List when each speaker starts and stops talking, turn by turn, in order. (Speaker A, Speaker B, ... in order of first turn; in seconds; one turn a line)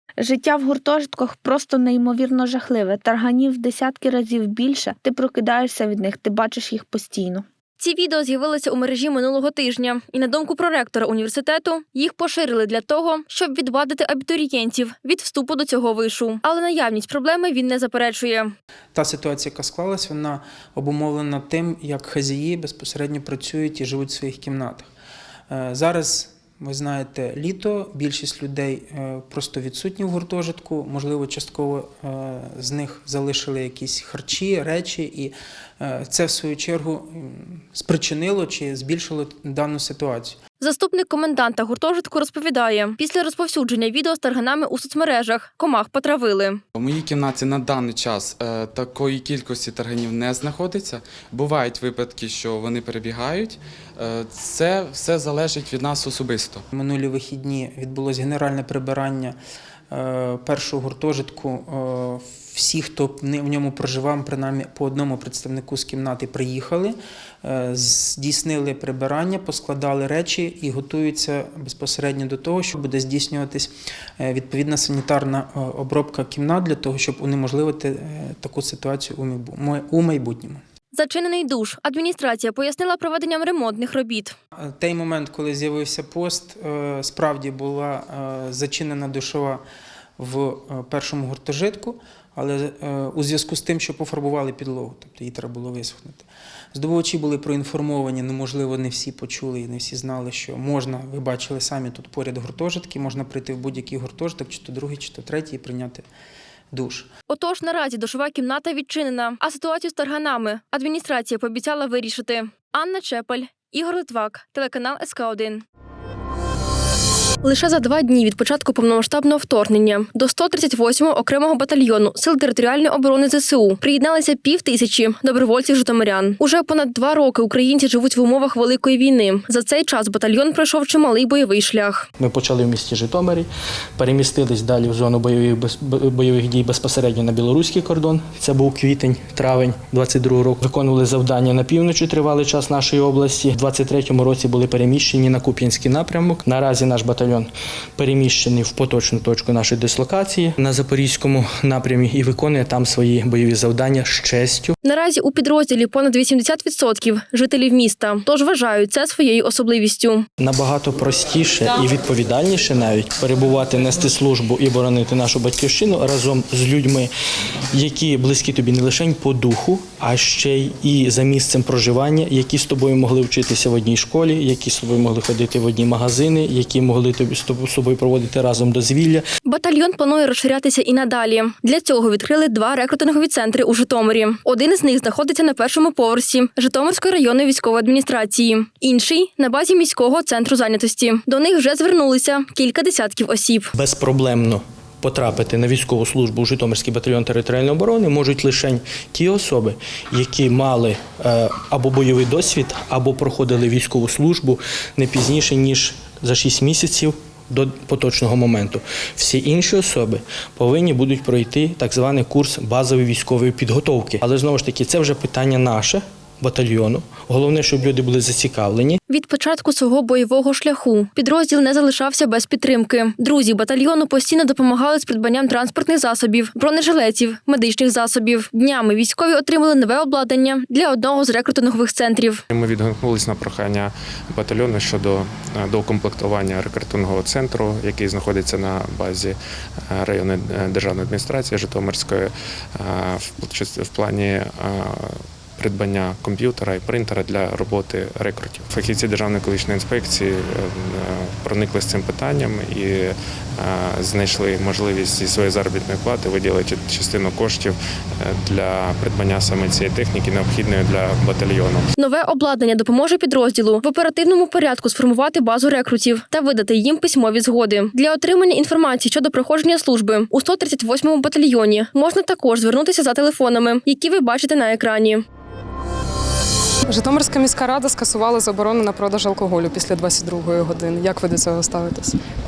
Speaker A: 0.2-7.4
Speaker B: 7.8-18.5
Speaker C: 18.9-24.9
Speaker C: 25.5-40.4
Speaker B: 40.6-46.6
Speaker D: 46.7-56.6
Speaker C: 56.7-59.4
Speaker C: 59.9-80.6
Speaker B: 80.9-84.3
Speaker C: 84.6-89.6
Speaker C: 90.2-106.1
Speaker C: 106.7-107.1
Speaker B: 107.3-115.6
Speaker B: 117.4-132.1
Speaker E: 132.2-154.8
Speaker B: 154.8-160.2
Speaker E: 160.4-167.1
Speaker E: 167.7-179.2
Speaker B: 179.4-193.7
Speaker E: 193.7-219.0
Speaker B: 219.1-232.4
Speaker F: 232.5-239.4
Speaker F: 239.9-261.9
Speaker B: 261.9-275.2
Speaker G: 276.9-282.1